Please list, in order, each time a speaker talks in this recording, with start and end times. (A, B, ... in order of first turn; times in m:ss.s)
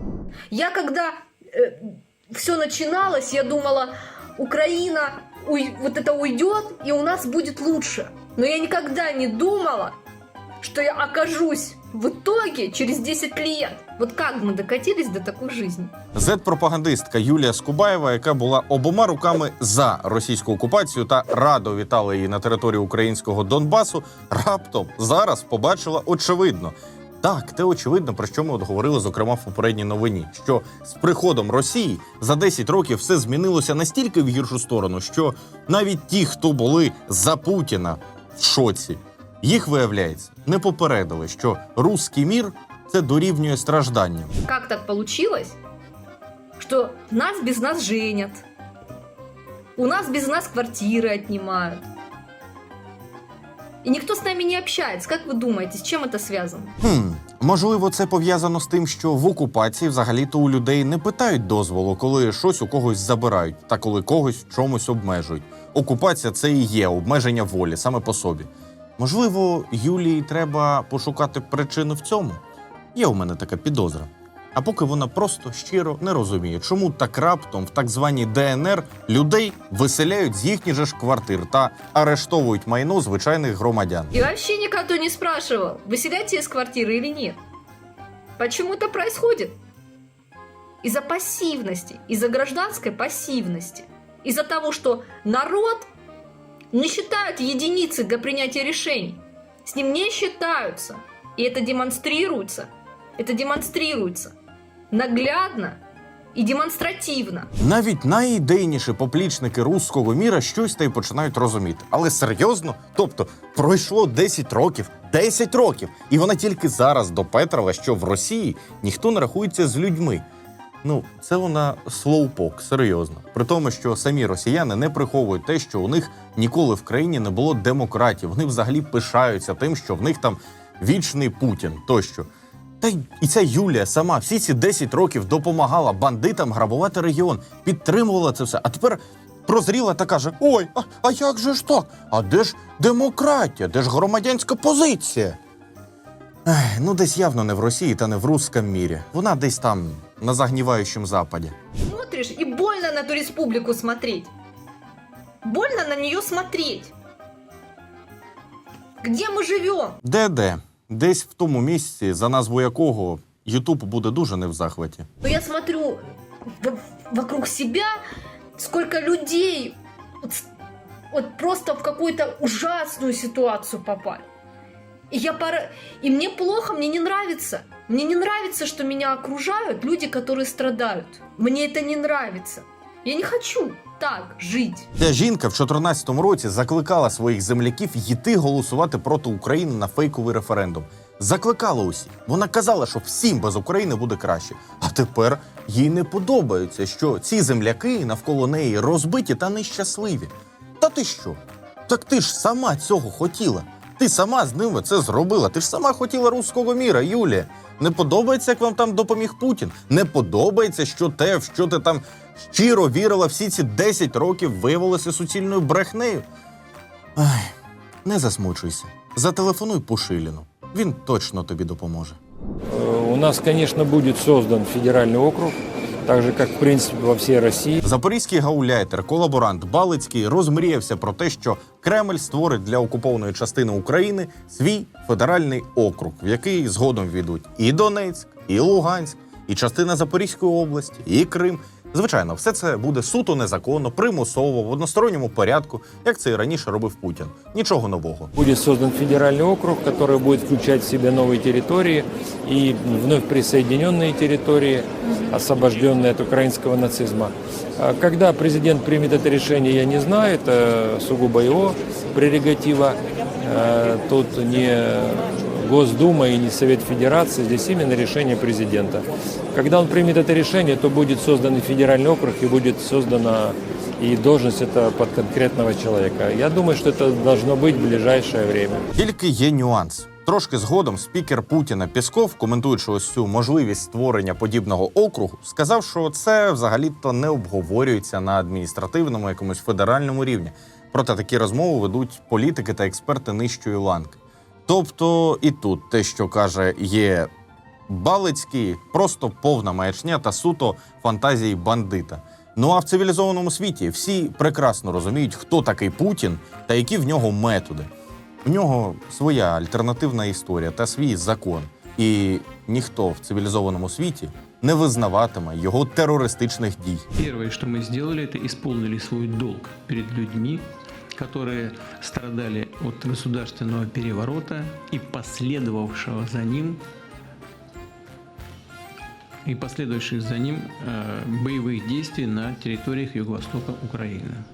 0:00.5-0:09.9 A
0:10.6-0:15.9 A
0:16.1-0:44.3 B
0:44.4-0:45.6 A
0:46.6-0:48.4 A
0:49.8-0:51.8 A
0:53.8-0:56.7 A
0:56.8-1:12.4 B
1:12.9-1:24.1 B
1:24.1-1:27.4 A
1:28.4-1:29.6 A
1:30.8-1:35.9 A
1:36.7-1:44.3 A
1:44.9-1:45.8 A
1:46.3-1:47.5 A
1:47.6-2:00.2 B
2:00.8-2:12.3 B
2:12.8-2:25.4 B
2:26.4-2:31.5 B
2:31.9-2:34.3 A
2:35.4-2:36.9 A
2:39.0-2:40.0 A
2:40.0-2:45.0 B
2:45.2-2:46.0 A
2:46.6-2:47.9 A
2:48.6-2:50.5 A
2:51.1-2:54.2 A
2:55.1-3:04.9 A
3:05.0-3:36.2 B
3:37.2-3:37.5 B
3:38.0-3:42.2 B
3:42.7-3:47.8 C
3:47.8-4:08.3 B
4:08.4-4:38.8 C
4:38.9-4:57.3 B
4:57.9-5:07.9 B
5:08.4-5:17.0 B
5:17.2-5:20.6 D
5:21.2-5:26.8 D
5:29.5-5:34.4 D